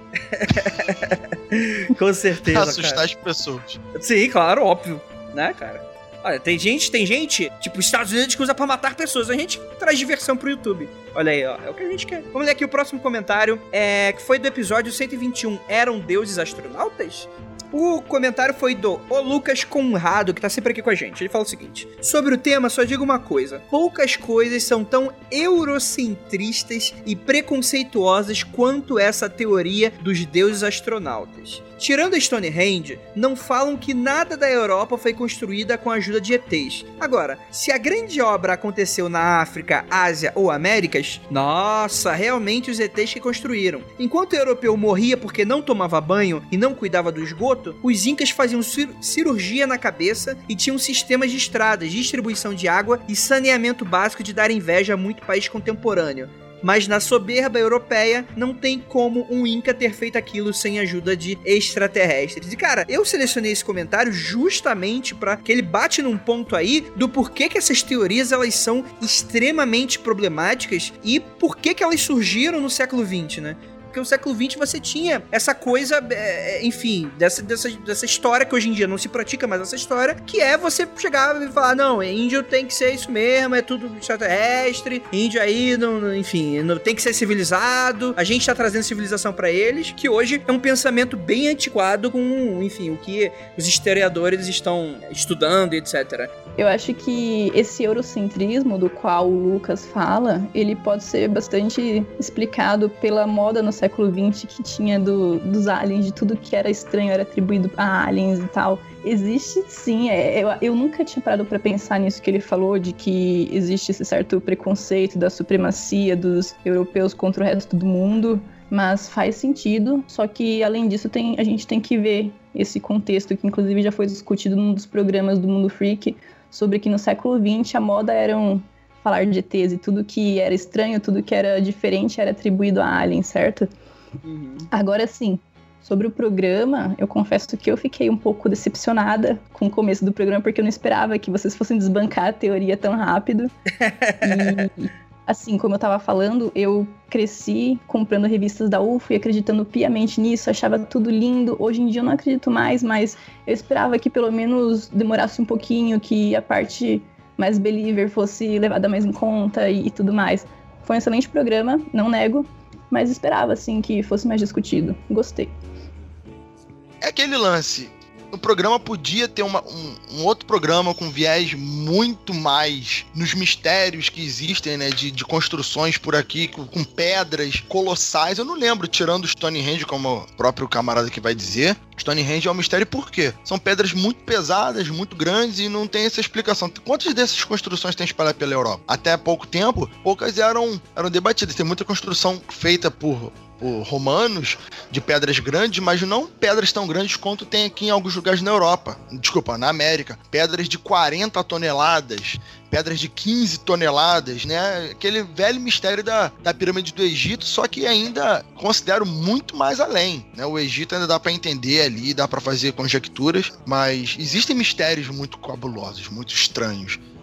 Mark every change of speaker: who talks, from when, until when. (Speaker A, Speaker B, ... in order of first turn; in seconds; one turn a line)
Speaker A: 0.3-3.0
Speaker B: 2.4-3.8
Speaker A: 3.9-96.3
Speaker C: 96.5-133.7
Speaker A: 134.2-134.7
Speaker C: 134.7-143.5
Speaker A: 143.8-144.6
Speaker C: 144.2-165.5
Speaker B: 167.0-217.0